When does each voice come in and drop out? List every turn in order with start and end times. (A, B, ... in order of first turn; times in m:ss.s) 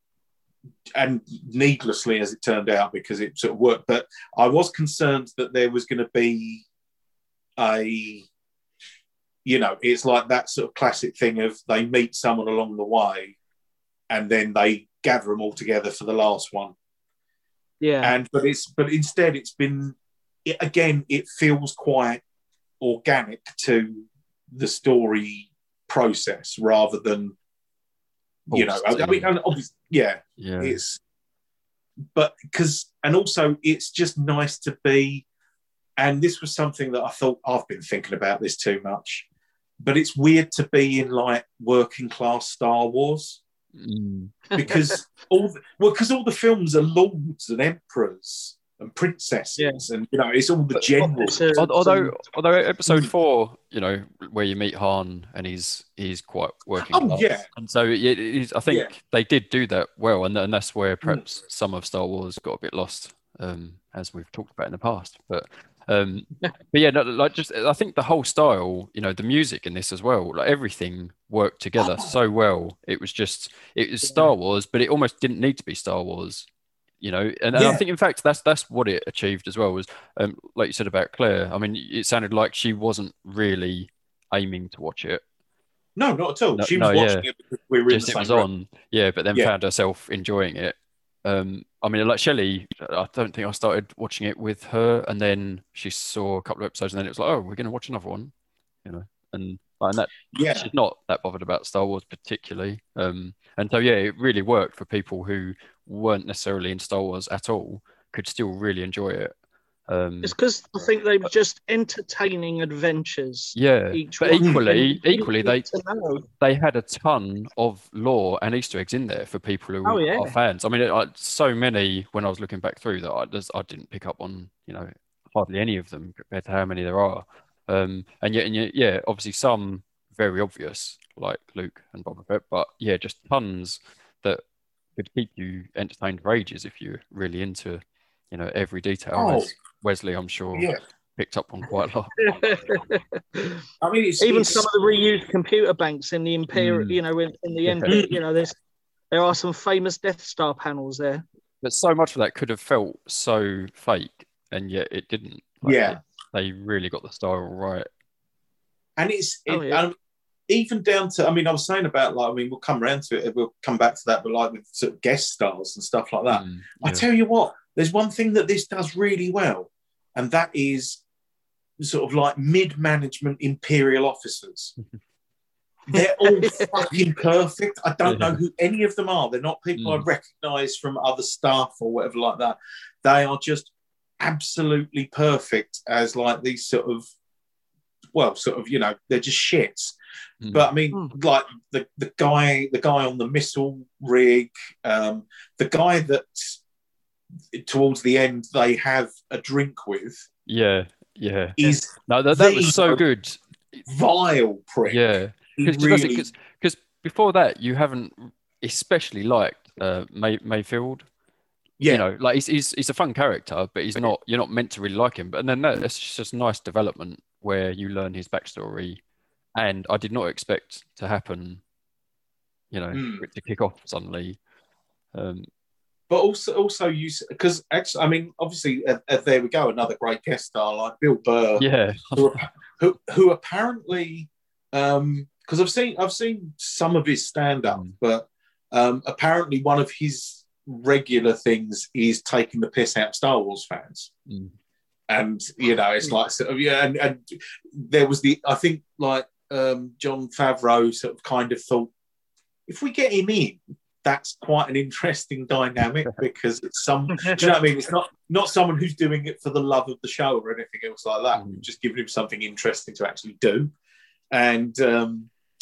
0:00.9-0:06.6 A
0:07.6-0:08.2 A
0:09.4-0:13.4 A
0:14.1-0:16.7 A
0:17.8-0:18.1 B
0:18.0-0:22.2 A
0:22.8-0:27.3 A
0:28.5-0:31.0 A
0:28.5-0:29.3 C
0:30.4-0:30.8 C
0:32.1-0:35.2 A
0:36.0-0:39.2 A
0:39.8-0:43.4 A
0:43.8-0:44.4 C
0:44.5-0:45.0 B
0:44.6-0:51.5 A
0:50.8-0:52.2 B
0:51.6-1:16.5 C
0:56.9-0:57.4 A
1:14.0-1:14.3 B
1:17.0-1:25.2 C
1:17.5-1:17.8 A
1:26.0-1:28.5 A
1:26.5-1:27.2 C
1:27.9-1:38.3 C
1:38.8-1:49.3 C
1:40.3-1:40.7 A
1:49.9-1:50.3 C
1:50.2-1:56.2 B
1:53.6-1:55.6 C
1:56.4-2:14.4 C
1:59.8-2:00.3 B
2:15.0-2:22.3 C
2:19.1-2:19.5 A
2:20.5-2:20.8 A
2:22.2-2:23.6 B
2:23.8-2:24.7 A
2:24.2-2:28.6 B
2:26.5-2:27.0 C
2:27.6-2:28.1 C
2:27.9-2:28.2 A
2:29.1-2:31.2 B
2:31.6-2:37.9 C
2:35.6-2:36.0 A
2:39.0-2:39.9 A
2:39.5-2:39.8 B
2:40.5-2:51.0 A
2:46.3-2:47.0 C
2:51.8-2:54.7 A
2:55.9-3:07.0 A
2:55.9-2:56.7 B
2:58.0-2:58.4 C
2:59.8-3:00.0 C
3:08.1-3:09.9 A
3:10.4-3:10.7 C
3:10.5-3:16.6 A
3:17.5-3:20.3 A
3:20.5-3:23.8 C
3:21.6-3:23.0 A
3:23.9-3:25.0 A
3:24.9-3:31.1 C
3:25.5-3:26.3 A
3:31.9-3:39.0 C
3:39.6-3:41.6 C
3:42.7-3:44.4 C
3:42.9-3:43.2 A
3:45.1-3:45.5 C
3:46.1-4:04.1 A
3:51.6-3:52.4 C
3:57.7-3:57.9 C
4:04.3-4:04.5 C
4:05.1-4:11.9 A
4:12.7-4:23.7 A
4:17.1-4:17.6 B
4:21.4-4:21.6 C
4:24.3-4:25.3 A